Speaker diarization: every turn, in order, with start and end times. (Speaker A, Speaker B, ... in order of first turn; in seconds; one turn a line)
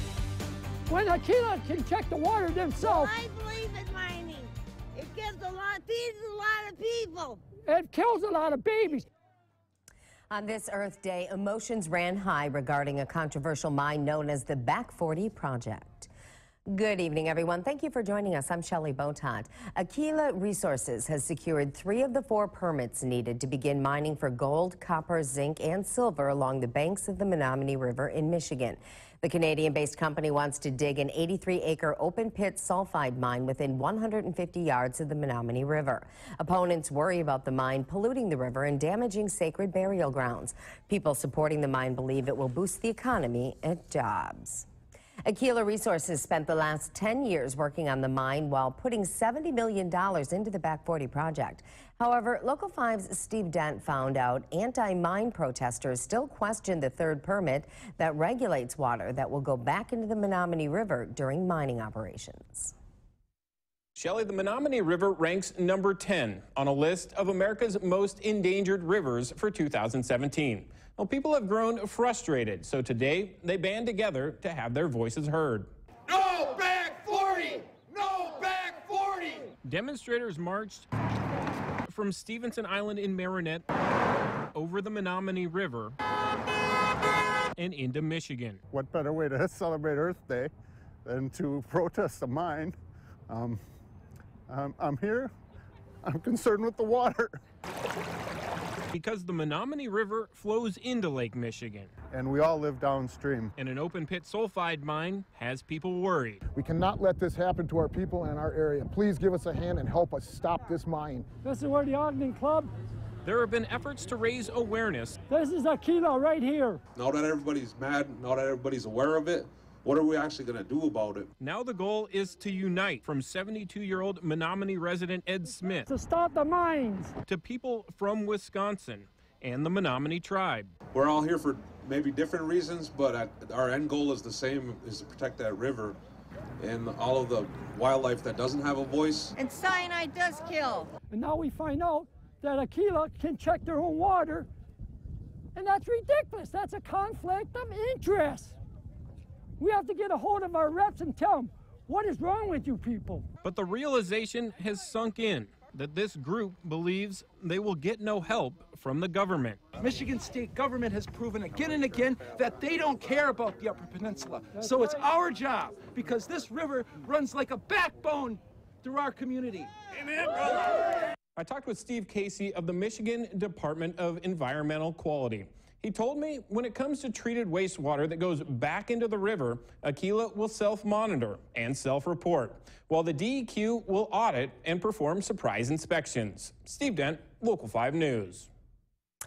Speaker A: 0.9-3.1
Speaker B: 2.8-7.4
Speaker A: 7.7-9.1
Speaker C: 10.3-16.1
Speaker C: 16.7-44.7
Speaker C: 45.3-62.7
Speaker D: 64.0-75.7
Speaker D: 79.6-80.9
Speaker D: 81.8-83.7
Speaker D: 84.5-86.0
Speaker D: 87.6-88.6
Speaker E: 88.7-90.5
Speaker E: 91.0-92.8
Speaker E: 93.3-93.6
Speaker E: 94.5-95.3
Speaker E: 96.0-97.4
Speaker D: 98.9-101.9
Speaker E: 102.1-103.5
Speaker D: 103.6-106.4
Speaker F: 106.5-111.3
Speaker A: 111.4-112.7
Speaker D: 113.2-115.2
Speaker A: 115.3-116.8
Speaker G: 117.0-121.3
Speaker D: 121.4-125.9
Speaker A: 125.9-127.2
Speaker D: 127.3-130.7
Speaker G: 130.9-136.0
Speaker G: 136.6-139.3
Speaker B: 139.4-140.9
Speaker A: 141.1-144.5
Speaker A: 145.6-148.6
Speaker A: 149.6-153.3
Speaker D: 153.4-159.6
Speaker H: 159.8-170.6
Speaker A: 164.6-165.0
Speaker D: 171.4-188.5